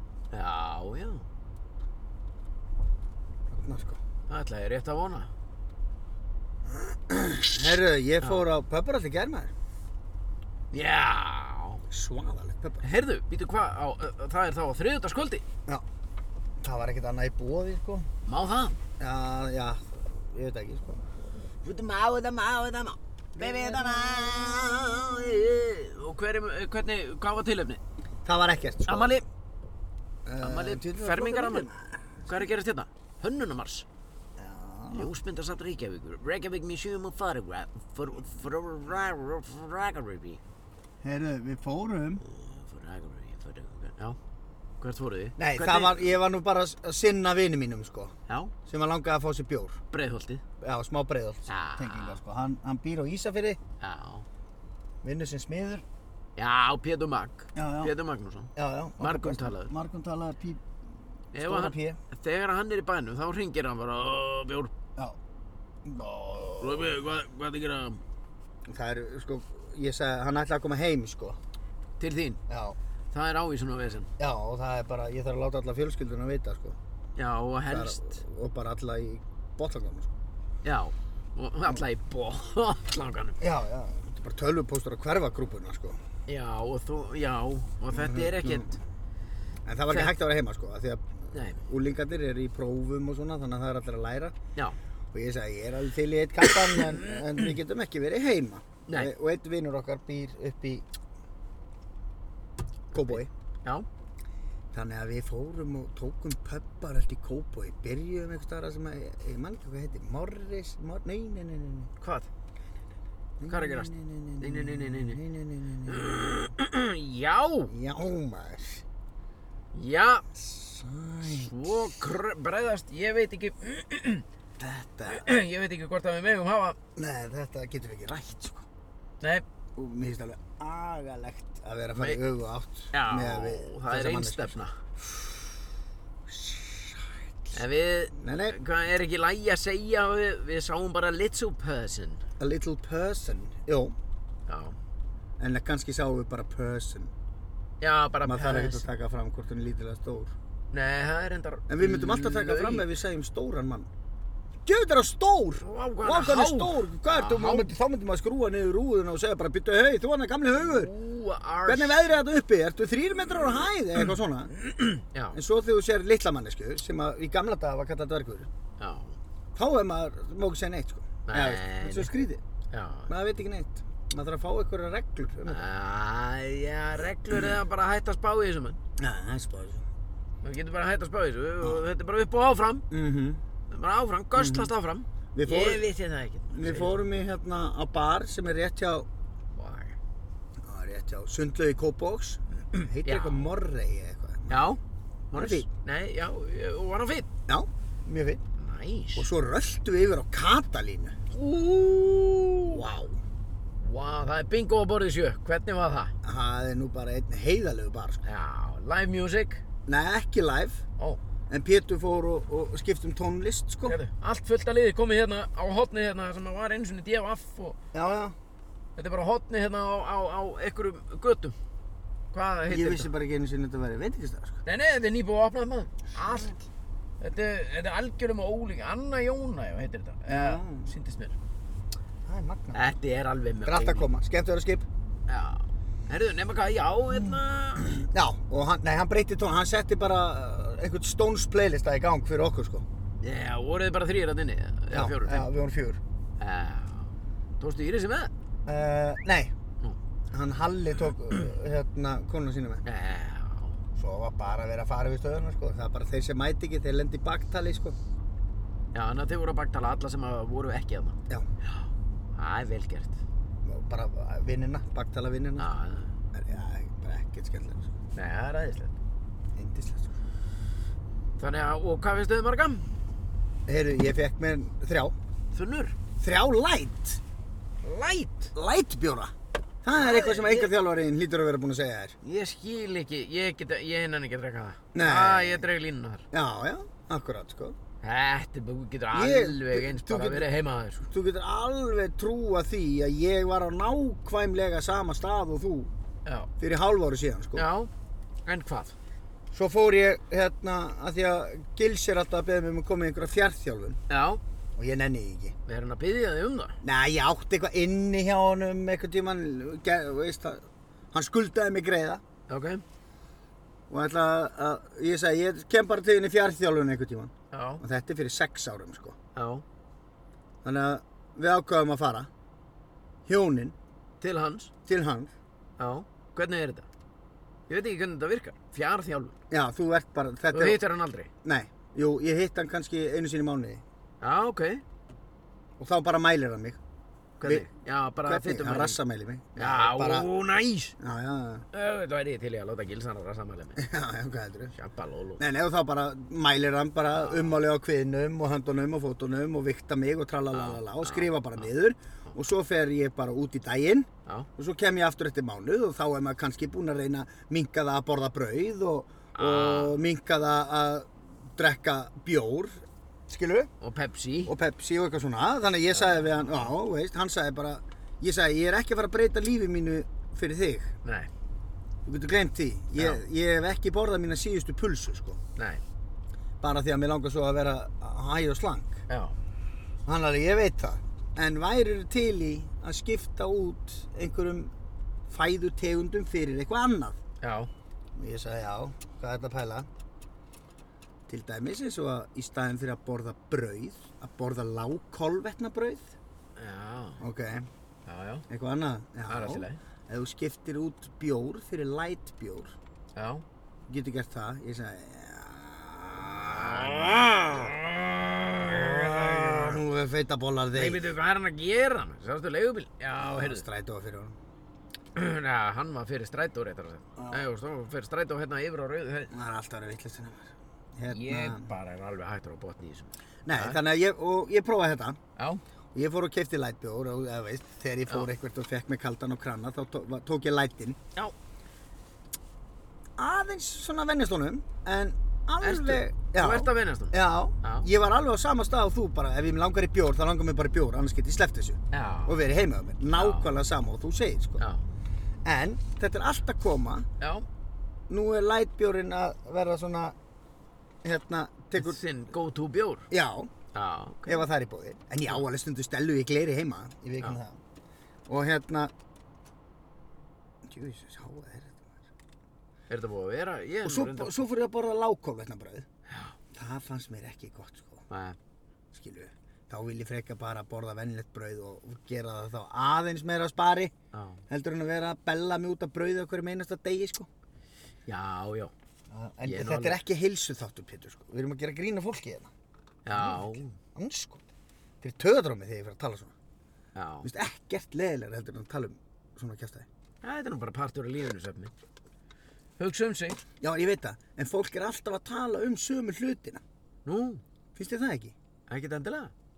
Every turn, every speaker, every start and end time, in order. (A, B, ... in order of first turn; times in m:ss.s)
0:00.3-0:01.2 A
0:03.5-0:04.0 B
0:04.3-0:05.3 A
0:06.7-0:09.5 B
0:10.7-0:11.8 A
0:11.9-0:12.9 B
0:12.8-0:15.4 A
0:16.6-0:18.1 B
0:18.2-0:18.7 A
0:19.0-0:21.0 B
0:21.6-0:27.8 A
0:23.4-0:24.1 B
0:28.2-0:29.1 B
0:28.9-0:29.2 A
0:30.2-0:32.0 B
0:30.4-0:31.7 A
0:32.3-0:33.8 A
0:34.4-0:35.1 B
0:34.9-0:40.4 A
0:41.0-0:42.2 B
0:42.2-0:44.2 A
0:44.8-0:46.2 A
0:45.4-0:48.1 B
0:48.3-0:48.5 A
0:48.6-0:49.8 B
0:49.9-0:50.4 A
0:50.6-0:53.6 B
0:51.5-0:52.2 A
0:53.8-0:54.2 A
0:55.0-0:55.8 B
0:56.4-0:59.7 A
0:57.5-0:57.9 B
0:58.6-1:00.6 B
1:01.3-1:04.7 A
1:01.4-1:02.0 B
1:05.8-1:07.0 B
1:06.6-1:08.0 A
1:08.7-1:11.4 B
1:12.0-1:12.4 A
1:12.5-1:12.8 B
1:13.1-1:14.1 A
1:14.2-1:16.8 B
1:17.2-1:18.2 A
1:17.7-1:20.1 B
1:20.6-1:23.4 A
1:23.4-1:26.0 B
1:26.3-1:28.8 A
1:27.9-1:28.7 B
1:29.6-1:34.3 B
1:31.3-1:31.6 A
1:35.1-1:40.8 B
1:36.4-1:37.2 A
1:38.9-1:39.1 A
1:42.9-1:43.3 B
1:43.0-1:43.8 A
1:44.7-1:51.9 B
1:52.0-1:52.3 A
1:53.4-1:56.1 B
1:53.5-1:55.2 A
1:55.9-1:57.7 A
1:57.7-1:58.8 B
1:59.7-2:00.2 A
2:00.3-2:01.9 B
2:01.2-2:04.2 A
2:04.6-2:05.3 B
2:05.1-2:06.8 A
2:07.0-2:08.6 B
2:09.8-2:15.4 B
2:12.9-2:14.7 A
2:16.3-2:17.6 B
2:17.5-2:22.2 A
2:18.1-2:18.6 B
2:22.4-2:23.9 B
2:24.5-2:24.8 A
2:25.4-2:27.1 B
2:27.8-2:28.8 A
2:28.2-2:30.3 B
2:30.7-2:32.8 A
2:31.7-2:33.9 B
2:34.6-2:40.9 B
2:35.6-2:37.7 A
2:40.6-2:42.0 A
2:41.6-2:44.5 B
2:44.6-2:45.4 A
2:45.3-2:48.5 B
2:48.8-2:49.2 A
2:49.5-2:52.4 B
2:51.3-2:52.1 A
2:52.7-2:53.1 A
2:53.1-2:55.7 B
2:55.5-2:58.8 A
2:59.0-2:59.8 B
3:00.4-3:02.8 A
3:02.9-3:03.4 B
3:03.7-3:07.0 A
3:04.4-3:04.7 B
3:05.3-3:05.8 B
3:06.5-3:09.1 B
3:09.5-3:09.9 A
3:10.6-3:14.7 B
3:12.7-3:13.5 A
3:14.5-3:14.8 A
3:15.3-3:17.3 A
3:15.3-3:15.7 B
3:17.5-3:18.4 B
3:18.6-3:19.3 A
3:19.2-3:21.2 B
3:21.3-3:22.8 A
3:22.6-3:23.2 B
3:23.8-3:26.1 A
3:26.2-3:28.2 B
3:28.2-3:29.6 A
3:29.9-3:30.8 B
3:31.5-3:34.0 B
3:33.8-3:37.8 A
3:37.9-3:38.4 B
3:39.0-3:41.5 A
3:42.3-3:43.1 A
3:42.7-3:44.6 B
3:44.6-3:46.5 A
3:46.1-3:46.6 B
3:47.2-3:51.4 A
3:50.3-3:50.9 B
3:52.3-3:52.8 B
3:52.7-3:54.1 A
3:53.6-3:54.8 B
3:55.3-3:58.0 A
3:57.1-4:02.8 B
4:03.2-4:05.5 A
4:04.9-4:06.0 B
4:06.4-4:08.3 A
4:08.6-4:09.5 B
4:10.3-4:12.8 B
4:12.8-4:13.8 A
4:14.0-4:18.0 B
4:18.9-4:23.2 A
4:23.6-4:25.7 B
4:25.6-4:26.1 A
4:26.3-4:27.9 B
4:28.1-4:29.0 A
4:29.5-4:30.1 B
4:31.4-4:32.9 A
4:33.7-4:35.1 B
4:35.5-4:36.0 A
4:36.2-4:37.2 B
4:37.8-4:38.5 A
4:38.5-4:42.1 B
4:39.9-4:40.7 A
4:42.2-4:46.2 A
4:44.9-4:45.6 B
4:46.3-4:47.8 B
4:48.0-4:51.0 A
4:49.1-4:50.5 B
4:51.0-4:55.9 B
4:56.2-4:56.5 A
4:56.6-4:57.7 B
4:57.5-4:57.9 A
4:58.4-4:59.0 A
4:59.5-5:04.0 B
5:04.1-5:04.4 A
5:04.8-5:05.5 B
5:05.7-5:06.8 A
5:06.8-5:12.2 B
5:12.5-5:12.8 A
5:13.9-5:19.2 B
5:17.5-5:17.8 A
5:19.3-5:19.6 A
5:20.6-5:22.3 B
5:23.2-5:23.7 B
5:24.2-5:24.7 A
5:24.9-5:25.3 B
5:25.8-5:26.8 A
5:27.7-5:29.4 A
5:29.5-5:30.8 B
5:30.5-5:31.3 A
5:31.4-5:33.8 B
5:34.2-5:34.8 A
5:35.8-5:36.8 B
5:37.4-5:39.0 A
5:38.2-5:40.3 B
5:39.6-5:40.9 A
5:41.0-5:41.6 B
5:41.7-5:43.9 A
5:43.8-5:44.7 B
5:44.7-5:45.4 A
5:45.4-6:03.7 B
5:47.1-5:47.6 A
5:50.5-5:51.7 A
5:59.3-6:00.0 A
6:03.8-6:04.5 A
6:04.4-6:10.9 B
6:05.9-6:06.7 A
6:11.0-6:11.3 A
6:12.0-6:15.4 B
6:12.9-6:13.2 A
6:15.6-6:15.8 A
6:16.6-6:19.0 B
6:19.1-6:19.3 A
6:20.0-6:24.7 B
6:25.3-6:27.2 B
6:27.4-6:27.7 A
6:28.2-6:29.9 B
6:31.3-6:36.1 B
6:36.6-6:37.2 A
6:37.2-6:37.7 B
6:38.0-6:38.4 A
6:38.5-6:42.8 B
6:39.3-6:39.8 A
6:43.2-6:43.4 A
6:43.9-6:47.7 B
6:46.3-6:49.8 A
6:48.6-6:51.0 B
6:50.7-6:53.6 A
6:53.2-6:54.4 B
6:55.1-6:59.3 A
6:57.2-6:57.4 B
6:59.3-7:01.7 B
7:01.1-7:03.8 A
7:03.4-7:05.2 B
7:05.4-7:05.6 A
7:05.9-7:11.0 B
7:13.2-7:24.6 B
7:15.6-7:17.9 A
7:21.9-7:22.4 A
7:23.1-7:23.5 A
7:25.4-7:27.1 B
7:27.2-7:27.4 A
7:28.1-7:30.2 B
7:31.0-7:32.0 B
7:31.8-7:33.1 A
7:33.1-7:33.5 B
7:33.7-7:34.4 A
7:34.3-7:37.6 B
7:38.3-7:38.9 B
7:40.6-7:42.0 B
7:42.9-7:44.4 A
7:43.8-7:45.8 B
7:46.1-7:46.3 A
7:46.5-7:48.1 B
7:48.1-7:48.4 A
7:48.9-7:53.9 B
7:54.1-7:54.4 A
7:54.5-7:57.3 B
7:58.1-7:58.7 A
7:59.1-8:02.5 B
7:59.4-8:00.0 A
8:03.0-8:03.7 A
8:03.1-8:04.4 B
8:05.0-8:06.3 B
8:06.9-8:07.3 A
8:07.2-8:09.9 B
8:10.2-8:11.7 A
8:12.8-8:13.4 A
8:13.6-8:16.6 B
8:17.0-8:17.4 A
8:17.8-8:18.3 B
8:18.7-8:19.3 A